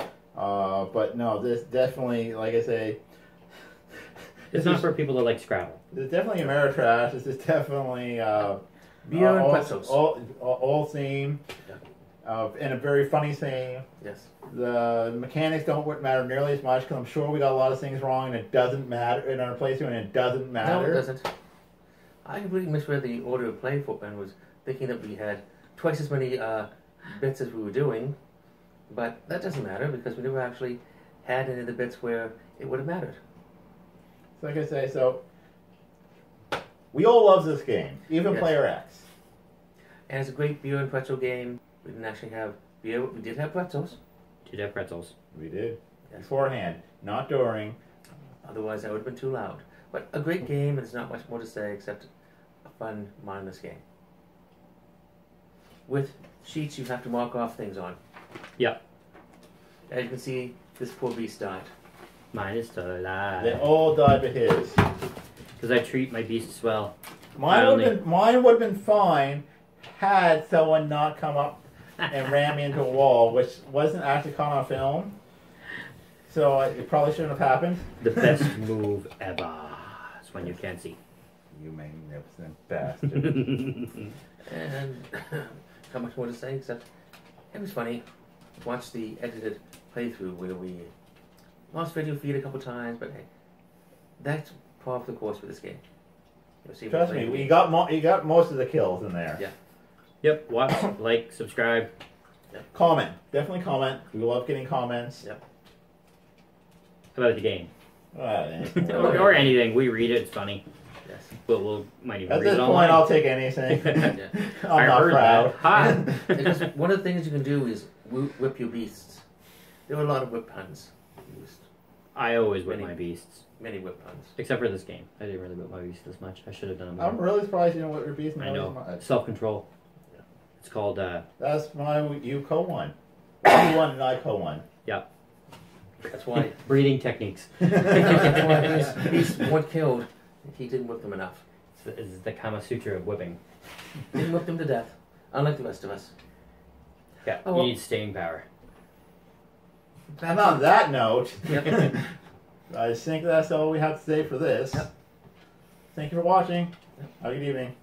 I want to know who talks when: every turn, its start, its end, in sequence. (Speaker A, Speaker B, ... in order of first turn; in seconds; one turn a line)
Speaker A: 0.3-3.0
Speaker A: 4.5-4.8
Speaker B: 4.5-5.8
Speaker A: 5.9-11.4
Speaker C: 9.1-10.0
Speaker A: 12.2-13.8
Speaker C: 14.0-14.3
Speaker A: 14.4-21.0
Speaker C: 20.6-21.3
Speaker C: 22.2-28.1
Speaker C: 28.9-33.2
Speaker A: 34.4-35.2
Speaker A: 36.9-39.0
Speaker C: 38.3-38.5
Speaker C: 40.1-44.0
Speaker B: 44.5-45.1
Speaker A: 45.3-47.8
Speaker C: 48.4-52.1
Speaker C: 52.6-53.8
Speaker C: 55.9-58.0
Speaker C: 59.9-61.7
Speaker B: 62.3-63.6
Speaker A: 63.4-64.8
Speaker B: 65.6-68.0
Speaker A: 67.3-75.1
Speaker A: 76.3-77.9
Speaker B: 78.0-81.0
Speaker A: 81.5-83.7
Speaker C: 84.4-86.8
Speaker C: 87.5-88.0
Speaker C: 88.6-90.9
Speaker C: 91.7-93.2
Speaker C: 94.2-95.8
Speaker C: 96.6-97.6
Speaker A: 96.9-99.4
Speaker B: 100.2-101.9
Speaker A: 102.7-105.2
Speaker B: 107.1-107.7
Speaker A: 108.1-109.4
Speaker B: 108.8-110.6
Speaker C: 108.9-109.3
Speaker C: 111.0-111.3
Speaker B: 111.5-113.2
Speaker A: 112.3-116.3
Speaker B: 113.7-114.2
Speaker B: 114.7-116.6
Speaker C: 115.7-119.2
Speaker C: 119.9-121.6
Speaker B: 122.1-123.4
Speaker C: 122.6-123.0
Speaker C: 123.6-124.3
Speaker B: 124.3-127.2
Speaker A: 127.0-129.0
Speaker B: 128.4-129.6
Speaker B: 130.6-131.2
Speaker A: 131.4-134.6
Speaker C: 136.1-136.6
Speaker B: 136.5-138.8
Speaker C: 137.8-141.4
Speaker B: 141.8-143.4
Speaker C: 144.1-146.1
Speaker B: 147.2-148.4
Speaker C: 147.4-147.7
Speaker A: 150.2-152.0
Speaker C: 151.5-151.9
Speaker A: 152.7-154.9
Speaker A: 155.9-157.7